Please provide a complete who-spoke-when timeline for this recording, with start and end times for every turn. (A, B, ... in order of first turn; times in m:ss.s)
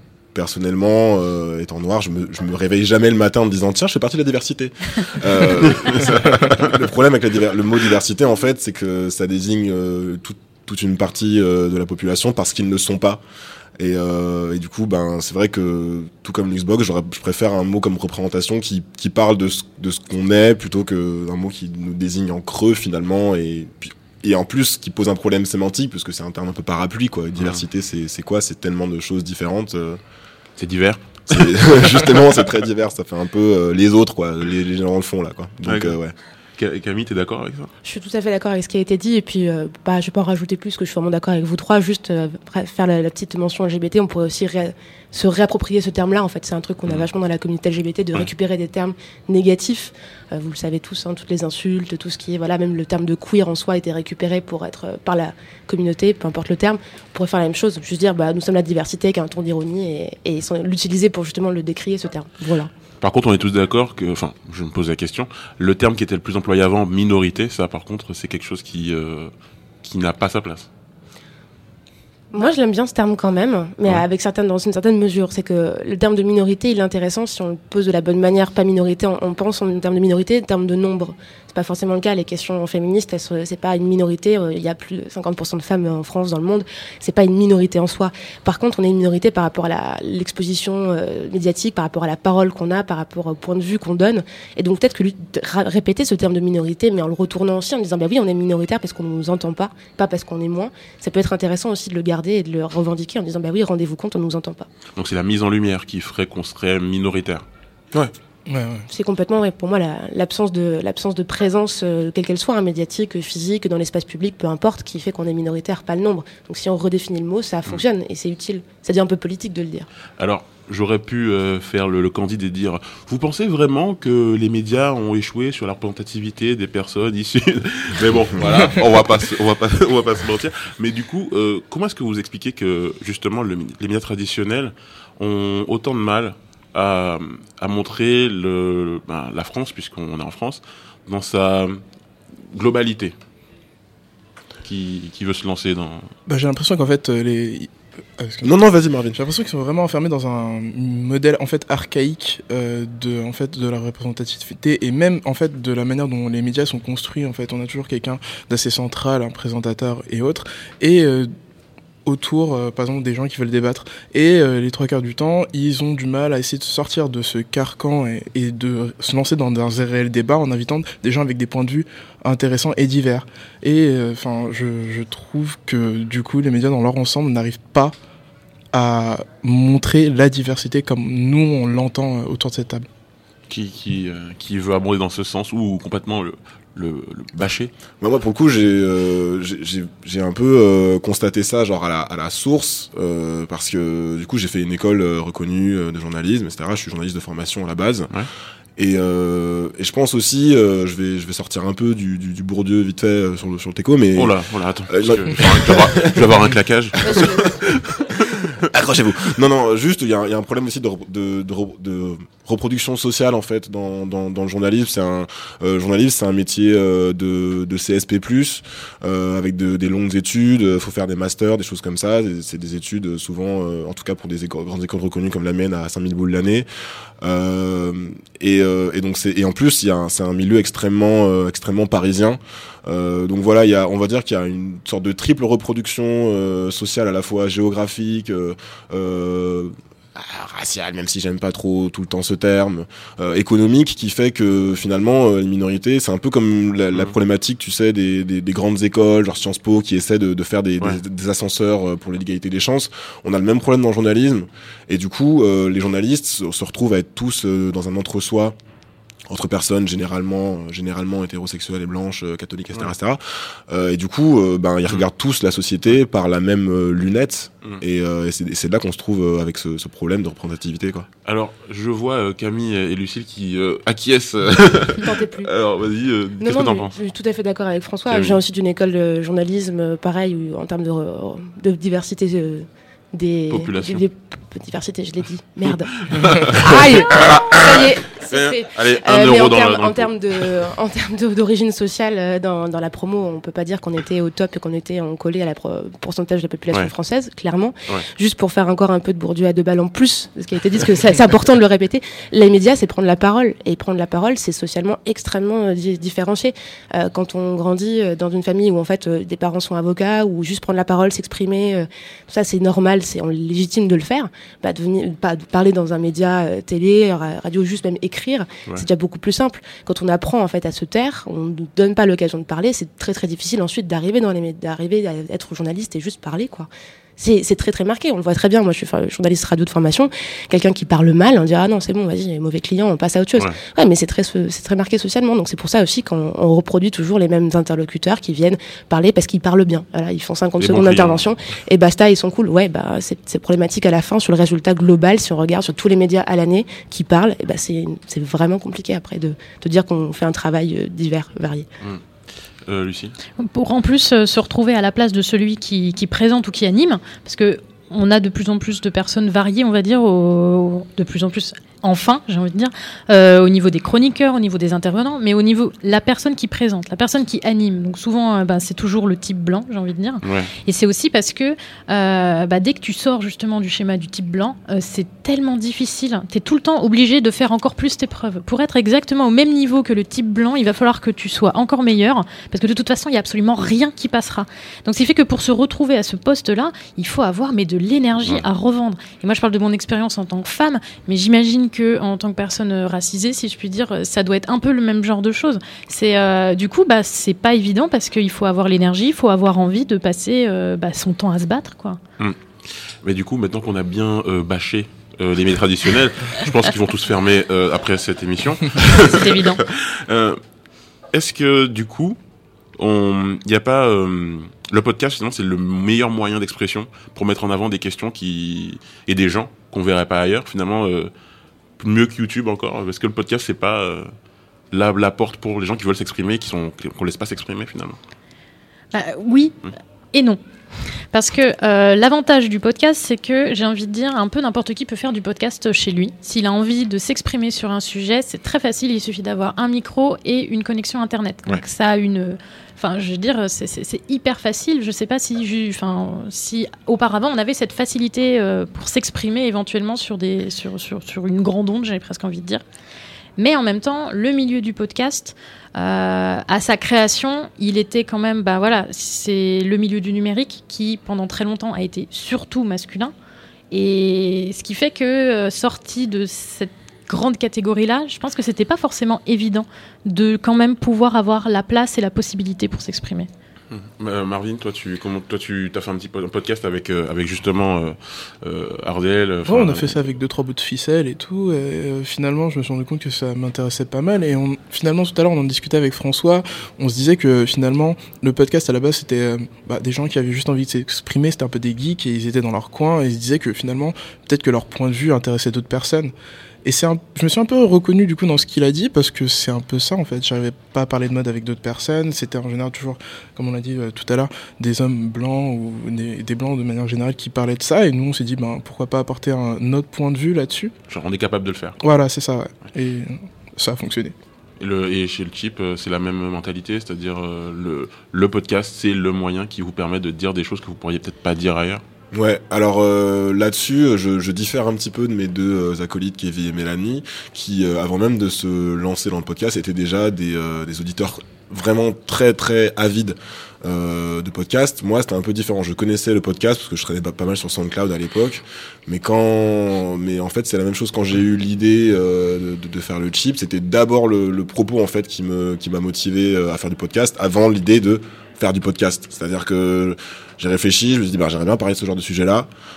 0:00.3-0:13.2 A
0:13.8-0:30.0 A
0:30.6-0:32.2 B
0:31.3-0:36.1 A
0:35.6-0:36.0 B
0:36.6-0:37.7 B
0:37.8-1:02.7 C
1:03.0-1:09.3 B
1:09.8-1:10.7 B
1:12.3-1:44.6 C
1:45.0-1:47.4 B
1:48.5-1:48.9 D
1:48.9-1:59.9 C
2:00.2-2:21.8 B
2:22.5-2:23.1 B
2:24.6-2:26.1 B
2:26.3-2:28.5 D
2:28.4-2:29.2 A
2:29.1-2:41.3 D
2:42.0-2:57.9 D
2:58.7-3:02.9 D
3:03.5-3:07.7 B
3:08.0-3:18.1 A
3:18.8-3:24.4 A
3:24.2-3:27.4 B
3:24.9-3:26.3 A
3:27.0-3:27.5 C
3:27.0-3:27.5 A
3:28.2-3:28.5 B
3:28.7-3:46.7 A
3:47.2-4:18.6 A
4:19.3-4:31.1 A
4:31.2-4:36.9 B
4:35.0-4:35.5 C
4:36.4-5:51.6 C
4:38.1-4:38.4 B
4:43.5-4:44.0 B
4:46.1-4:50.6 B
5:40.6-5:41.2 B
5:52.6-5:53.1 B
5:53.4-6:42.0 E
6:10.2-6:10.5 B
6:43.0-6:50.4 B
6:49.0-6:49.6 E
6:51.1-6:52.2 B
6:52.8-7:01.1 B
7:01.8-7:04.1 B
7:04.7-7:08.0 B
7:08.9-7:09.6 E
7:10.1-7:10.4 E
7:11.1-7:32.6 E
7:33.4-7:43.1 E
7:43.7-7:53.3 E
7:53.7-8:00.0 B
7:59.4-8:16.1 D
8:16.6-8:30.7 D
8:30.9-8:31.8 B
8:31.8-8:34.1 D
8:34.6-8:41.8 B
8:42.1-9:12.5 A